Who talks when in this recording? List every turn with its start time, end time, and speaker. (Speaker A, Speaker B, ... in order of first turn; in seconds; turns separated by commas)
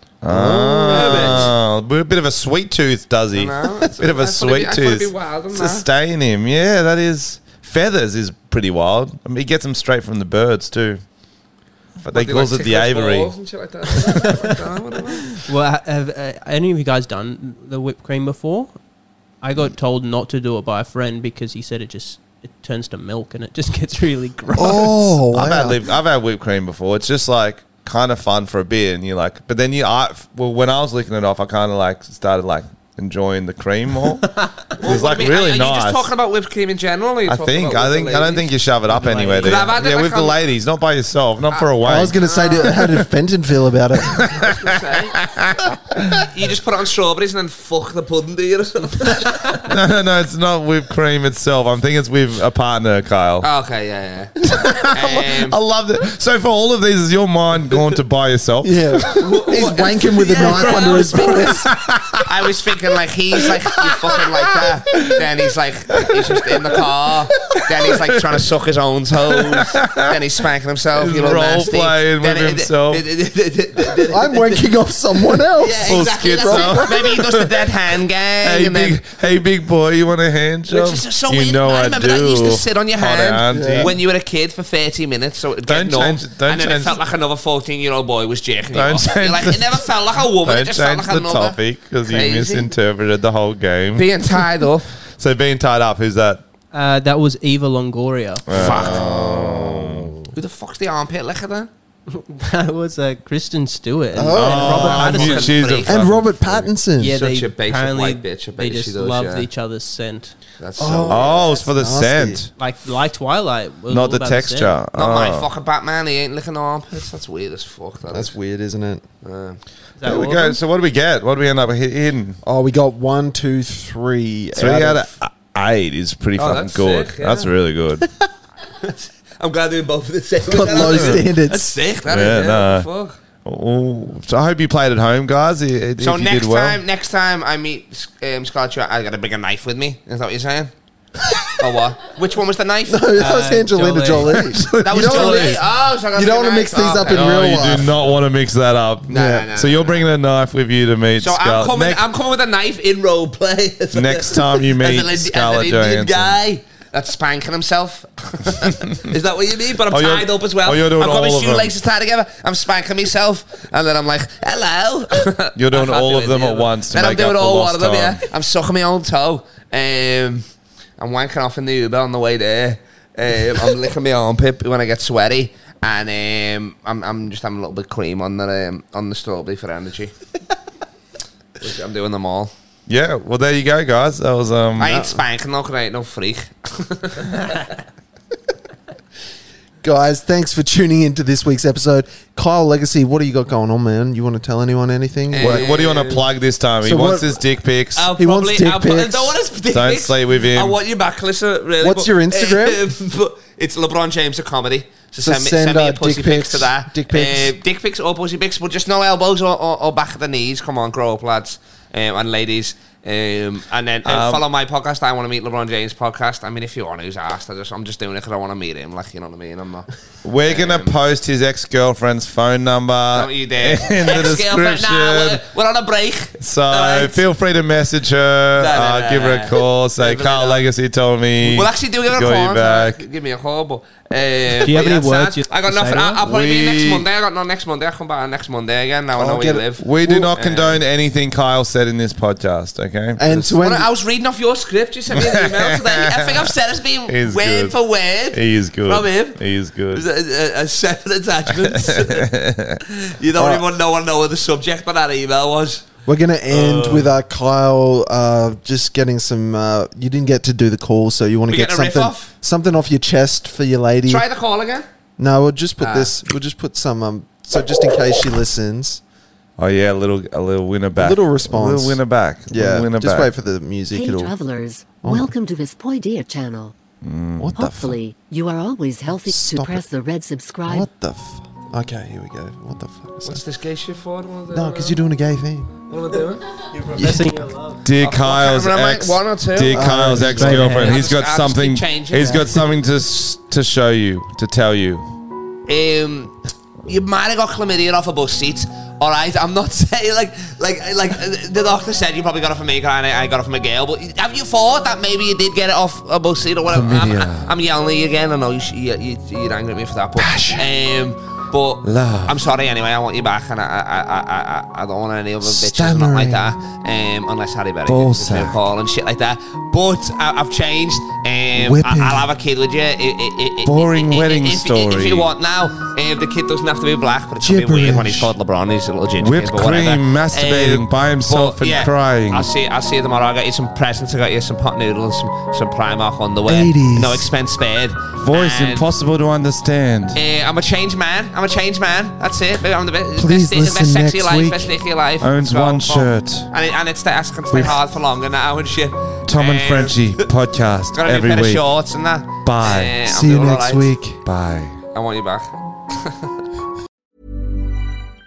Speaker A: 0.2-11.0, Speaker B: 0.3-1.5, Speaker C: 0.9-1.5, Speaker C: 3.3-5.9, Speaker A: 12.0-13.3, Speaker C: 12.1-15.3, Speaker A: 13.9-14.5, Speaker D: 15.4-18.8, Speaker D: 19.4-25.1, Speaker B: 24.5-25.8, Speaker A: 25.2-36.1, Speaker C: 34.8-38.5, Speaker A: 37.3-43.0, Speaker D: 39.0-39.7, Speaker C: 39.4-40.4, Speaker C: 41.5-42.9, Speaker B: 41.8-44.3, Speaker A: 44.0-46.3, Speaker C: 44.4-45.2, Speaker C: 46.3-49.6, Speaker A: 49.6-53.5, Speaker C: 53.4-54.4, Speaker A: 54.5-59.4, Speaker C: 54.9-55.6, Speaker B: 58.6-61.7, Speaker C: 59.1-61.7, Speaker A: 60.3-62.3, Speaker C: 62.2-74.7, Speaker A: 66.0-66.5, Speaker A: 69.3-70.2, Speaker A: 70.9-73.0, Speaker B: 74.1-77.1, Speaker C: 75.6-79.0, Speaker A: 75.8-77.5, Speaker A: 78.4-84.0, Speaker C: 80.7-92.7, Speaker B: 83.5-84.0, Speaker A: 85.7-87.0, Speaker A: 88.7-89.9, Speaker A: 90.4-94.1, Speaker C: 94.0-94.9, Speaker A: 95.2-96.4, Speaker D: 96.7-98.5, Speaker A: 98.5-100.2, Speaker C: 98.5-99.3, Speaker B: 98.6-100.2, Speaker C: 100.3-101.7, Speaker D: 102.1-105.6, Speaker B: 104.1-107.2, Speaker A: 104.3-106.7, Speaker C: 104.8-106.4, Speaker D: 107.0-110.4, Speaker C: 107.0-109.5, Speaker C: 110.6-111.5, Speaker B: 110.8-112.5, Speaker A: 111.1-112.5, Speaker D: 112.6-114.8, Speaker A: 113.9-115.5, Speaker C: 114.9-118.3, Speaker B: 118.1-119.0, Speaker C: 119.2-119.6, Speaker D: 120.0-120.6, Speaker A: 120.0-122.4, Speaker B: 122.4-125.1, Speaker A: 124.6-128.1, Speaker C: 126.4-127.5, Speaker C: 128.8-133.2, Speaker B: 130.4-131.8, Speaker A: 130.7-131.2, Speaker A: 132.1-132.9, Speaker A: 133.4-136.8, Speaker C: 136.0-140.7, Speaker C: 141.6-143.3, Speaker B: 142.9-148.1, Speaker D: 143.2-144.5, Speaker A: 144.3-145.6, Speaker C: 144.7-148.1, Speaker A: 147.0-152.0, Speaker C: 149.1-150.1, Speaker B: 149.1-149.5, Speaker C: 151.2-170.4, Speaker A: 153.9-156.4, Speaker A: 159.9-161.7, Speaker A: 165.6-168.2, Speaker C: 171.0-180.1, Speaker C: 181.6-182.5, Speaker A: 182.9-185.0, Speaker C: 184.8-187.6, Speaker B: 184.8-185.2, Speaker B: 189.8-195.8, Speaker C: 195.3-196.3, Speaker A: 195.4-198.1, Speaker B: 196.8-197.4, Speaker C: 198.0-219.9, Speaker B: 198.2-199.4, Speaker A: 199.7-200.8, Speaker B: 201.8-202.8, Speaker B: 205.2-207.6, Speaker A: 214.1-214.4, Speaker A: 220.2-225.4, Speaker C: 220.4-220.9, Speaker C: 223.1-227.2, Speaker A: 226.4-233.0, Speaker C: 228.6-230.7, Speaker C: 231.4-240.8, Speaker D: 234.6-236.2, Speaker A: 236.2-237.1, Speaker B: 239.2-240.3, Speaker A: 239.8-243.5, Speaker B: 243.2-243.9, Speaker C: 243.6-249.4, Speaker A: 245.1-246.5, Speaker A: 247.1-247.8, Speaker A: 248.3-250.0, Speaker C: 249.9-252.3, Speaker A: 251.5-252.8, Speaker C: 253.0-255.9, Speaker B: 253.4-253.7, Speaker B: 256.1-264.3, Speaker C: 256.5-257.1, Speaker C: 261.5-262.3, Speaker C: 264.1-264.9, Speaker B: 265.2-269.0, Speaker C: 265.8-266.1, Speaker A: 269.6-273.3, Speaker B: 271.0-274.3, Speaker E: 273.9-276.7, Speaker B: 275.0-275.3, Speaker A: 277.0-277.5, Speaker B: 277.4-278.0, Speaker E: 277.5-280.9, Speaker B: 279.1-279.8, Speaker B: 280.6-283.4, Speaker C: 283.2-285.0, Speaker B: 284.5-285.7, Speaker C: 285.9-286.5, Speaker D: 286.7-287.8, Speaker B: 286.9-287.3, Speaker A: 287.8-295.1, Speaker C: 288.0-292.6, Speaker B: 289.7-290.8, Speaker D: 290.4-291.0, Speaker C: 295.7-296.3, Speaker C: 296.9-338.9, Speaker A: 306.7-307.5, Speaker A: 310.2-310.6, Speaker A: 311.8-312.4, Speaker B: 315.4-316.4, Speaker A: 317.9-318.6, Speaker B: 321.6-322.3, Speaker A: 323.6-325.3, Speaker B: 327.4-328.3, Speaker A: 329.2-332.5, Speaker B: 336.5-337.3, Speaker A: 338.2-340.2, Speaker C: 340.1-350.3, Speaker B: 343.2-344.7, Speaker A: 345.2-346.5, Speaker A: 349.3-351.6, Speaker C: 350.9-353.9, Speaker A: 352.4-353.0, Speaker B: 353.0-354.2, Speaker A: 354.2-354.8, Speaker C: 354.9-356.2